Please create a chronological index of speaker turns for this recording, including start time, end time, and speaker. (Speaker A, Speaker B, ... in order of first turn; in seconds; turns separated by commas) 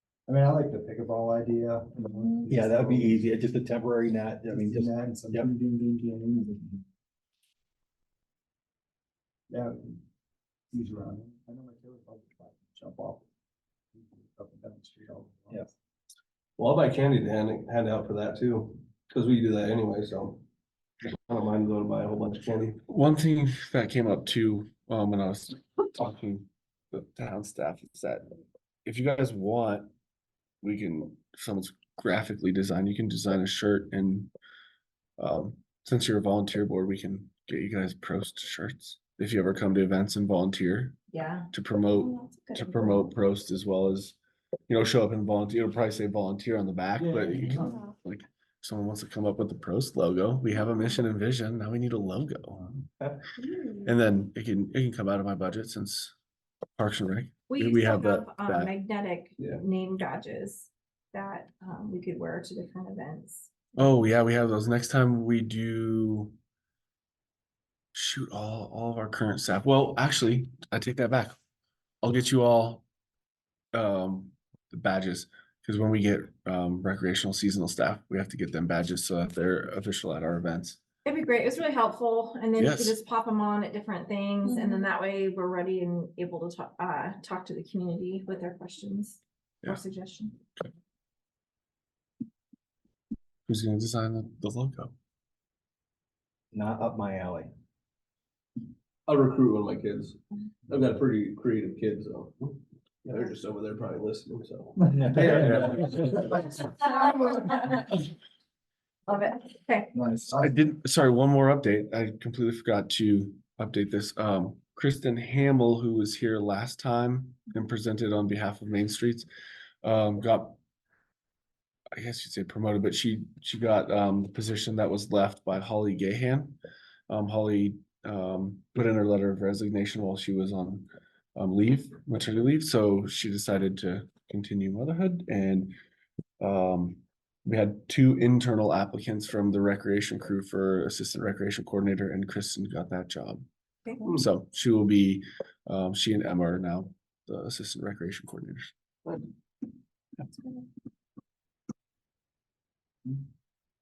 Speaker A: 0.3-3.4, Speaker B: 2.5-5.5, Speaker A: 4.5-6.7, Speaker A: 9.5-10.0, Speaker A: 10.7-13.2, Speaker A: 13.9-15.7, Speaker C: 16.6-20.4, Speaker C: 21.0-22.8, Speaker D: 22.9-28.3, Speaker D: 28.8-29.9, Speaker D: 30.6-34.3, Speaker D: 35.2-41.0, Speaker E: 41.1-43.1, Speaker D: 41.5-44.2, Speaker D: 44.7-52.6, Speaker A: 47.3-47.8, Speaker E: 47.4-47.9, Speaker E: 53.4-53.9, Speaker D: 53.8-56.1, Speaker D: 56.8-58.7, Speaker E: 57.5-63.7, Speaker D: 63.8-66.3, Speaker D: 67.9-71.4, Speaker D: 72.0-72.8, Speaker D: 73.7-80.8, Speaker E: 81.0-90.4, Speaker D: 82.5-83.0, Speaker D: 93.5-94.9, Speaker B: 96.5-97.5, Speaker C: 99.0-106.3, Speaker E: 106.8-107.9, Speaker E: 109.1-109.9, Speaker A: 109.9-110.5, Speaker D: 110.3-119.3, Speaker D: 119.8-120.6, Speaker D: 121.9-126.6, Speaker D: 127.1-135.7, Speaker D: 136.4-143.4, Speaker D: 144.1-148.7